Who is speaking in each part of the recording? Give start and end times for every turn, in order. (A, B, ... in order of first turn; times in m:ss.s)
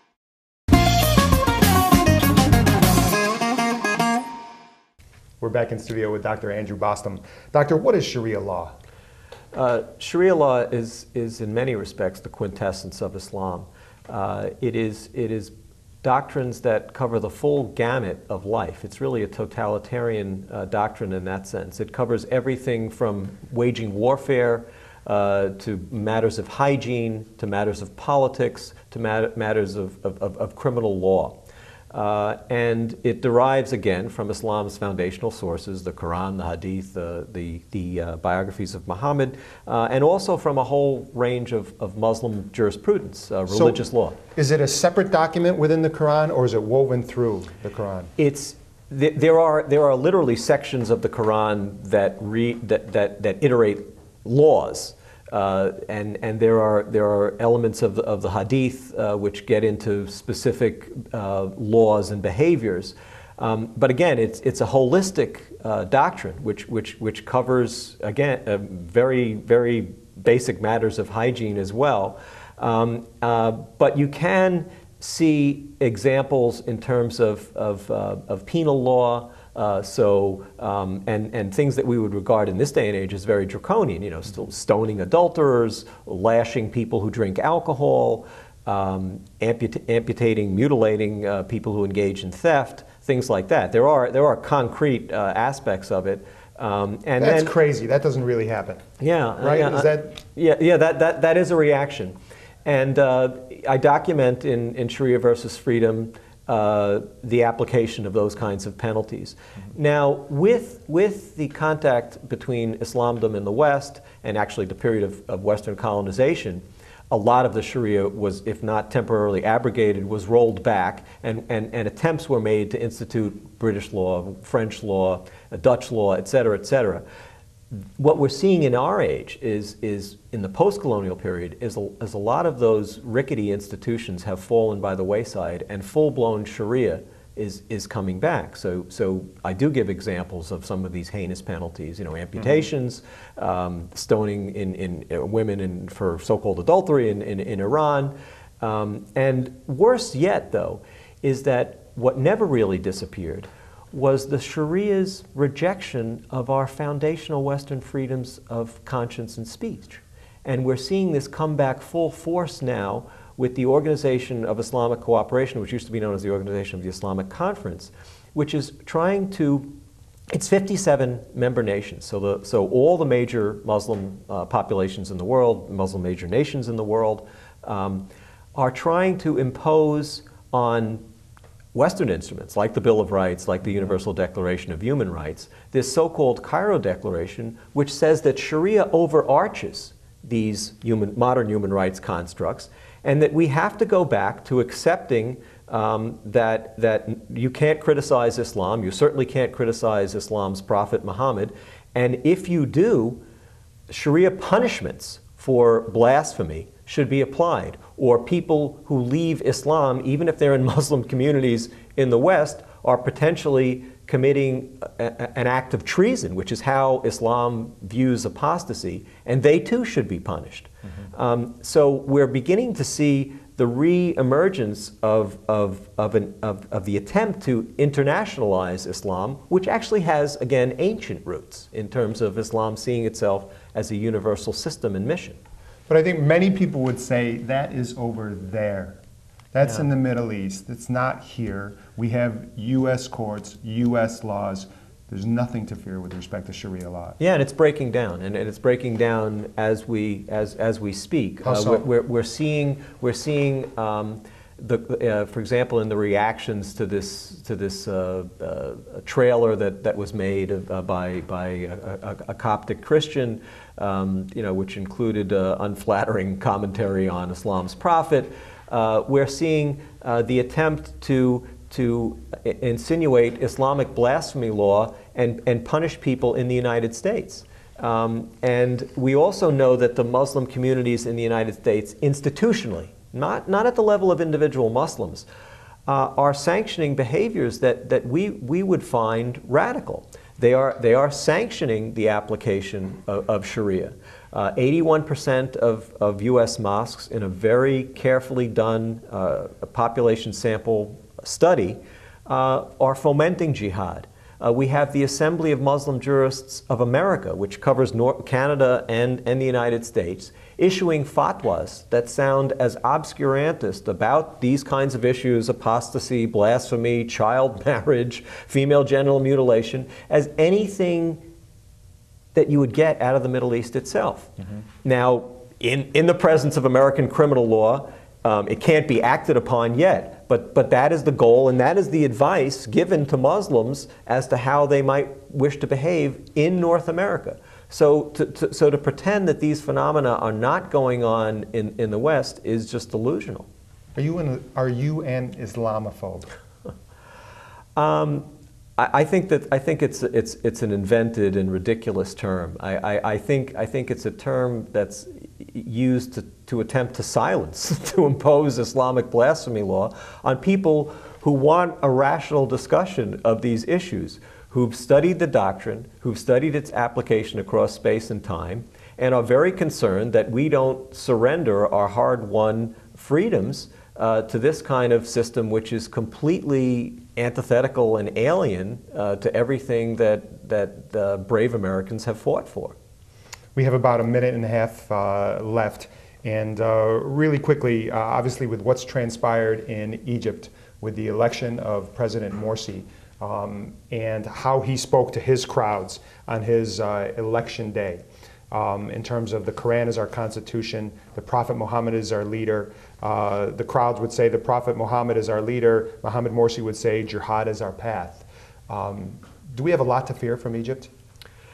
0:05.4-0:08.7 A
0:09.5-0:31.4 B
0:31.9-0:44.2 B
0:43.5-0:43.8 A
0:44.3-0:48.1 A
0:48.2-1:37.5 B
1:37.2-1:38.8 A
1:39.0-1:42.2 B
1:39.4-1:40.2 A
1:42.7-2:07.0 B
2:07.7-2:49.7 B
2:50.3-3:01.0 B
3:01.7-3:23.2 B
3:23.9-3:55.4 B
3:55.9-3:59.0 A
3:59.5-4:07.2 A
4:07.2-4:45.3 B
4:11.4-4:11.9 A
4:45.9-5:21.2 B
5:22.3-5:24.3 B
5:24.8-5:43.5 B
5:44.0-5:46.3 A
5:47.8-6:22.8 B
6:23.6-6:50.9 A